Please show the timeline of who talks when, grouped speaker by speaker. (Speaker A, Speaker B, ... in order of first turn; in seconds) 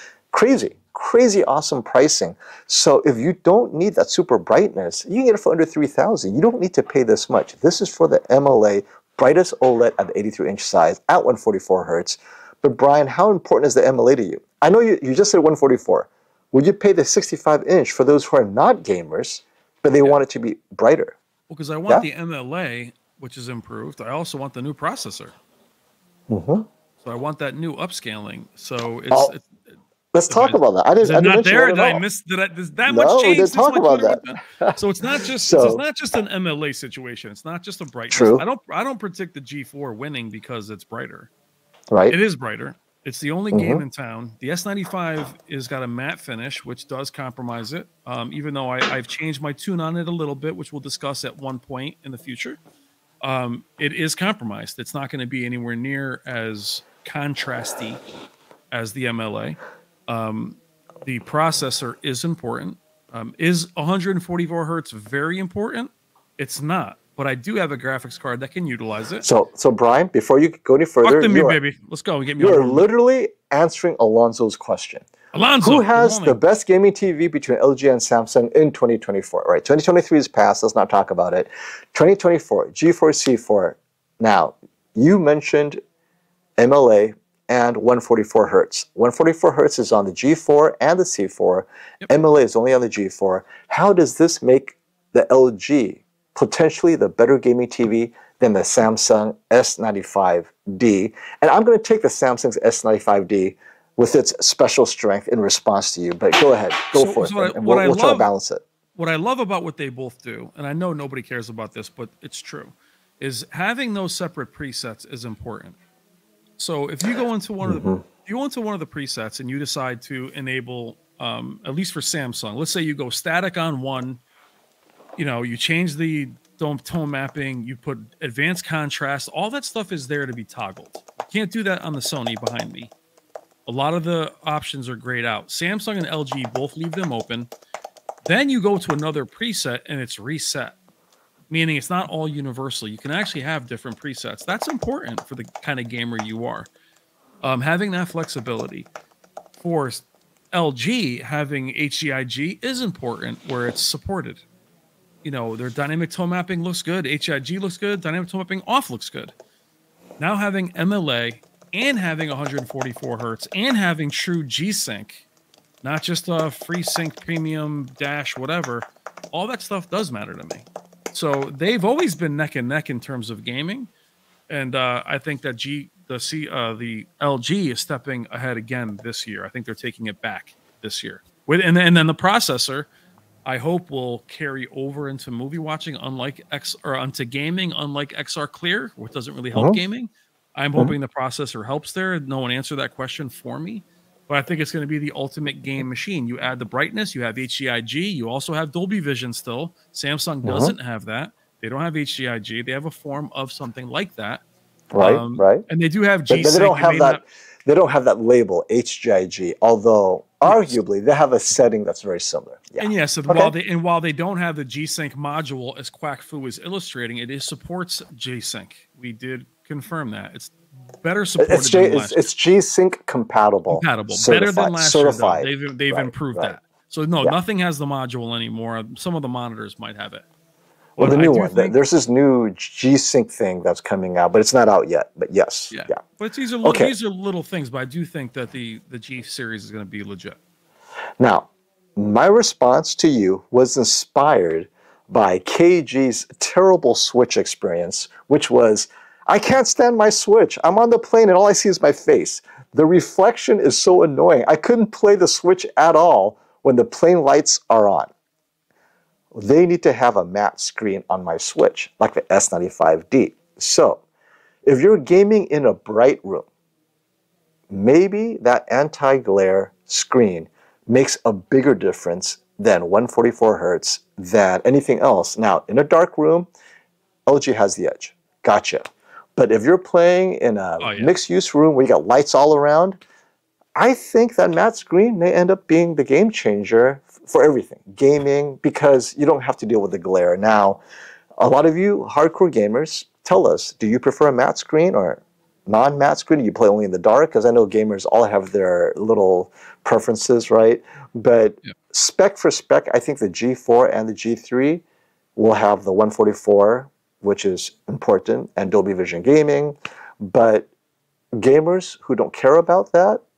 Speaker A: 0.3-21.1, 26.3-26.7, 30.1-32.0, 32.9-35.8, 38.1-38.5, 41.9-42.2, 43.5-43.8, 69.2-71.6, 72.4-75.1, 75.6-85.8, 86.6-108.6, 117.6-118.0, 200.4-200.7, 204.9-205.7, 206.3-213.5, 221.4-226.6, 231.0-236.0, 236.6-236.9, 241.2-258.1, 259.3-264.0, 264.6-266.5, 267.7-276.5, 277.3-278.8, 279.4-283.0, 283.8-290.8, 291.4-304.8, 305.4-310.7, 311.4-313.2
Speaker B: 21.5-25.4, 27.0-29.8, 30.3-41.3, 42.1-52.6, 53.2-58.0, 58.7-69.3, 71.0-72.9, 75.3-76.4, 106.9-108.3, 109.0-115.8, 116.6-124.2, 125.2-132.9, 133.7-137.5, 138.2-140.8, 141.5-146.7, 147.4-148.9, 149.6-154.4, 155.2-159.3, 160.2-165.2, 165.8-173.9, 174.5-182.9, 183.4-204.4, 205.0-207.2, 210.4-210.8, 212.8-222.2, 223.7-230.2, 231.0-231.8, 235.7-240.4, 280.8-281.1